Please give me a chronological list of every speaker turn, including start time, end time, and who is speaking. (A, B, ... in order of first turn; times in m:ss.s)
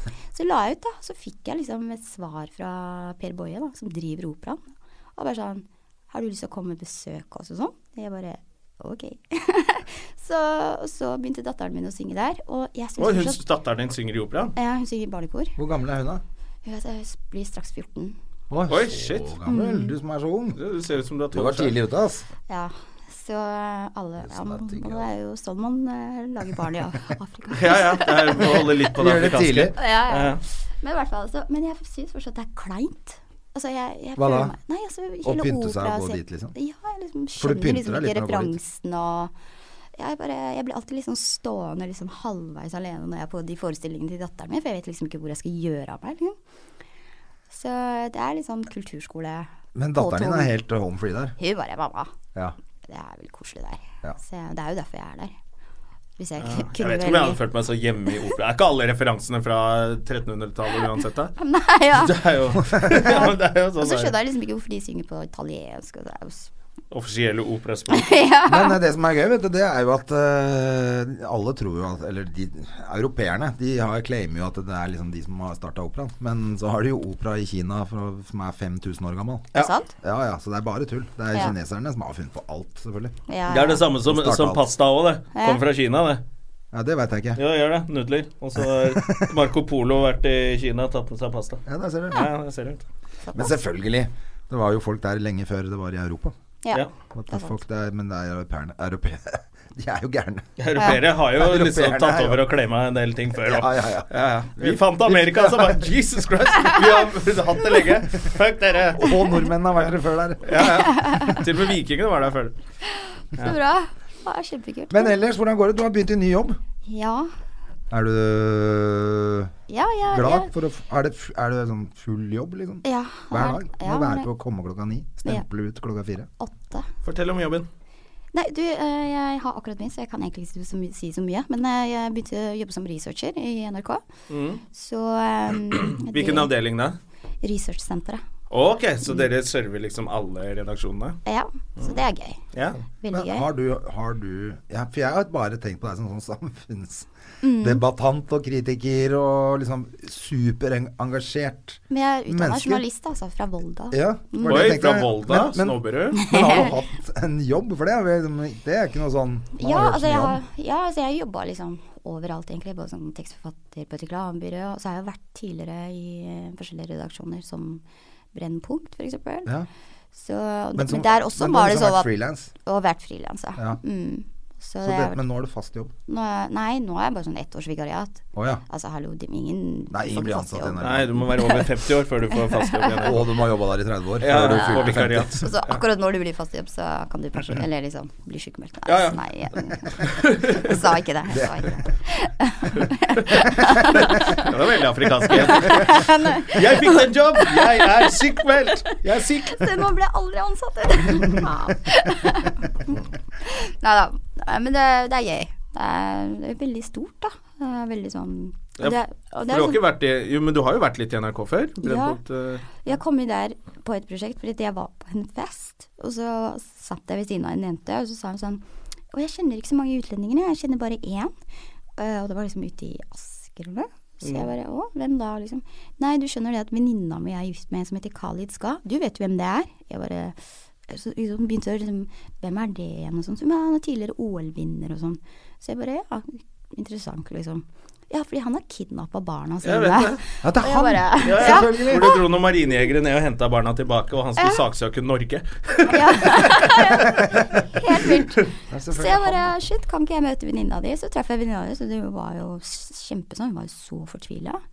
0:00.3-0:04.6 A
0:05.2-0:13.4 A
0:13.0-0:14.5 B
0:14.6-0:15.6 A
0:15.6-0:16.2 C
0:16.6-0:18.2 A
0:18.5-0:20.6 C
0:18.7-0:19.3 B
0:19.5-0:20.0 A
0:20.5-0:21.8 B
0:21.3-0:22.3 C
0:22.5-0:28.7 A
0:24.2-0:25.1 C
0:27.5-0:30.4 B
0:28.9-0:29.8 C
0:29.8-0:39.3 A
0:34.2-0:34.5 C
0:35.2-0:36.5 C
0:37.4-0:38.6 C
0:39.9-0:46.4 A
0:47.5-0:50.5 A
0:49.7-0:51.4 C
0:51.4-0:52.1 A
0:52.9-0:55.3 A
0:56.2-0:57.4 A
0:56.4-1:01.3 B
1:01.4-1:02.3 A
1:02.0-1:04.1 B
1:02.7-1:03.0 C
1:02.8-1:06.5 A
1:06.9-1:08.1 B
1:07.9-1:08.8 A
1:08.4-1:23.1 C
1:19.5-1:19.9 A
1:23.3-1:23.9 A
1:23.5-1:26.2 B
1:24.0-1:24.7 C
1:25.3-1:25.6 A
1:26.7-1:27.4 C
1:27.4-1:32.8 B
1:28.6-1:29.3 C
1:31.6-1:32.2 C
1:33.2-1:33.6 A
1:33.3-1:36.3 C
1:36.6-1:37.6 A
1:37.1-1:40.5 C
1:40.6-1:49.1 B
1:41.2-1:42.5 C
1:43.3-1:45.9 C
1:49.0-1:50.6 C
1:50.4-1:52.6 B
1:50.6-1:51.4 A
1:52.8-1:55.1 A
1:54.9-1:56.6 C
1:56.8-1:57.3 A
1:57.9-1:59.5 C
1:59.7-2:00.5 A
2:00.1-2:06.3 C
2:02.8-2:04.3 A
2:06.4-2:06.9 A
2:07.0-2:07.7 B
2:08.3-2:14.0 A
2:14.3-2:14.6 B
2:14.7-2:16.5 A
2:15.7-2:17.0 B
2:17.4-2:18.2 A
2:18.5-2:21.2 B
2:21.2-2:22.4 A
2:22.5-2:22.8 B
2:23.0-2:23.5 A
2:23.1-2:27.1 C
2:27.4-2:27.8 A
2:27.6-2:32.8 C
2:31.9-2:34.8 A
2:33.9-2:40.4 C
2:34.4-2:36.3 B
2:36.2-2:36.8 A
2:39.6-2:47.8 A
2:48.3-2:49.5 A
2:50.1-2:55.2 A
2:50.7-2:52.5 C
2:54.8-2:55.9 C
2:56.1-3:01.7 A
2:58.3-2:58.6 C
2:59.9-3:01.2 C
3:00.8-3:03.2 B
3:02.3-3:03.2 A
3:03.0-3:05.4 C
3:04.2-3:05.8 B
3:04.5-3:14.5 A
3:08.8-3:09.2 B
3:10.0-3:10.7 B
3:11.3-3:11.8 C
3:13.3-3:14.2 C
3:13.9-3:19.6 B
3:15.3-3:29.8 A
3:28.8-3:32.8 B
3:31.8-3:32.2 A
3:32.7-3:41.3 A
3:42.0-4:02.2 A
3:44.2-3:44.5 B
3:59.6-4:00.2 B
4:00.4-4:02.1 C
4:01.2-4:06.8 B
4:05.8-4:14.6 A
4:08.7-4:09.5 C